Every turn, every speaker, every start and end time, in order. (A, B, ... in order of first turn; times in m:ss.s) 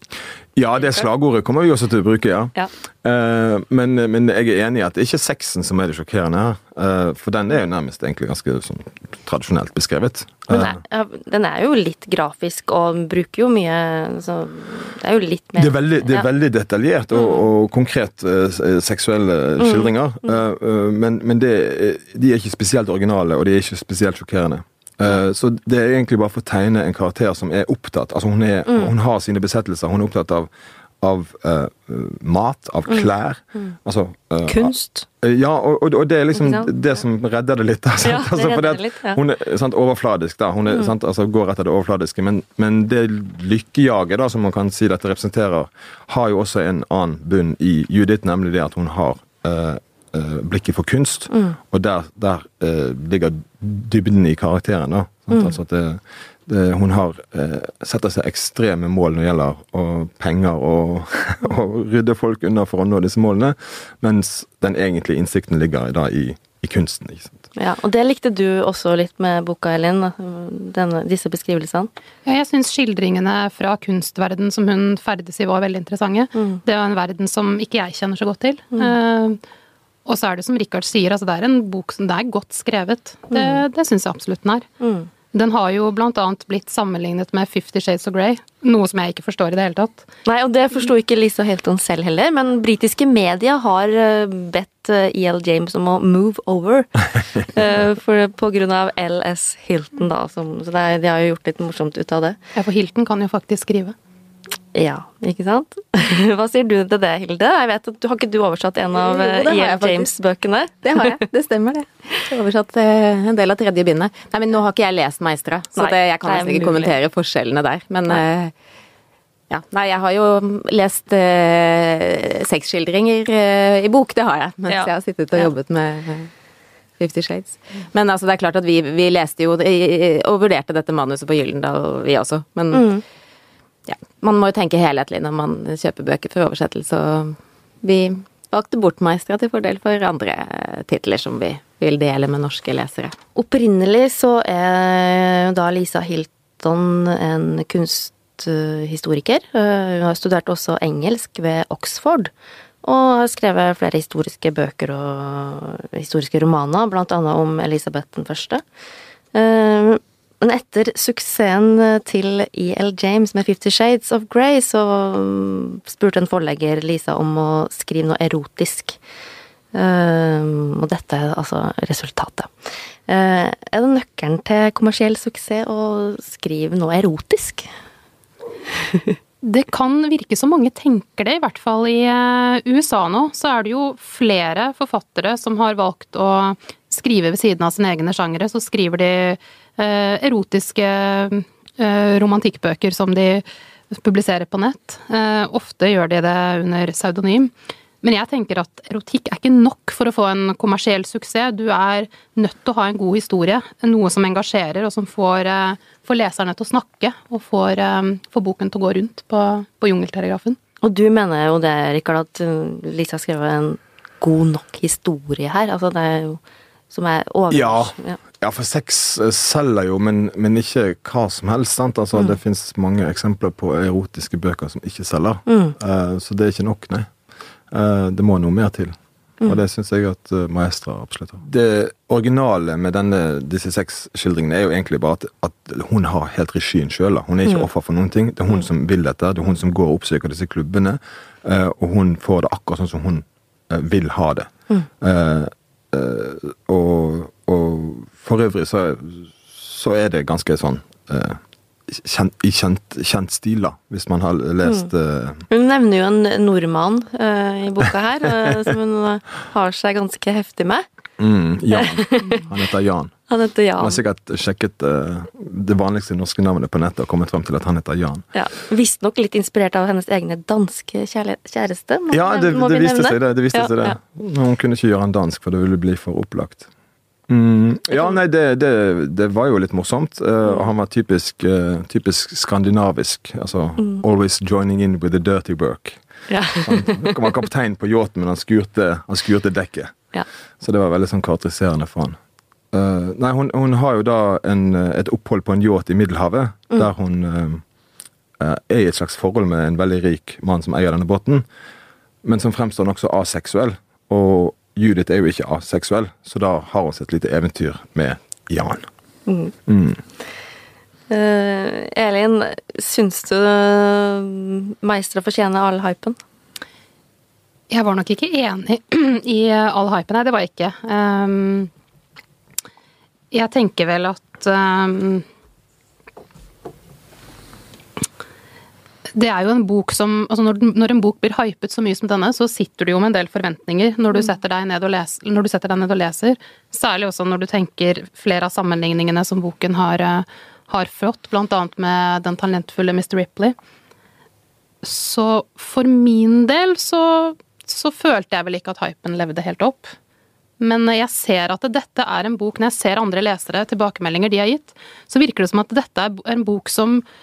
0:00.6-0:10.8 A
0:10.5-0:16.2 B
0:15.6-0:30.5 A
0:19.6-0:19.9 B
0:31.0-1:07.4 A
0:34.5-0:35.1 B
0:36.4-0:36.7 B
0:38.0-0:39.2 B
1:07.6-1:11.9 B
1:12.3-1:19.4 C
1:20.0-1:24.7 C
1:23.3-1:23.6 B
1:24.8-1:25.1 B
1:25.3-1:30.0 C
1:30.3-1:42.4 B
1:42.6-1:44.0 C
1:44.7-1:51.2 B
1:49.0-1:50.1 D
1:50.8-1:58.5 D
1:55.8-1:56.9 B
1:59.5-2:06.3 D
2:04.7-2:05.5 B
2:07.0-2:12.9 D
2:12.7-2:13.0 B
2:13.9-2:23.2 D
2:23.4-2:32.3 B
2:32.8-2:38.6 B
2:39.3-2:49.0 B
2:49.7-2:52.5 B
2:53.1-2:57.7 B
2:58.8-2:59.1 B
2:59.4-3:30.6 C
3:30.8-3:38.2 B
3:37.5-3:47.1 A
3:45.5-3:45.8 B
3:47.7-4:15.5 A
4:15.5-4:20.9 B
4:21.2-4:23.2 A
4:21.7-4:22.4 B
4:23.3-4:24.0 B
4:23.8-4:28.2 A
4:28.3-4:34.0 B
4:32.1-4:36.7 A
4:37.3-4:46.0 A
4:46.3-4:47.2 B
4:46.6-4:49.9 A
4:50.6-4:52.2 A
4:52.7-4:57.6 A
4:58.4-5:01.4 A
5:02.2-5:08.9 A
5:09.3-5:09.5 B
5:09.7-5:10.0 A
5:11.1-5:16.2 B
5:17.7-5:21.7 C
5:23.3-5:25.2 C
5:29.1-5:43.6 C
5:44.8-5:50.0 C
5:50.6-5:57.0 C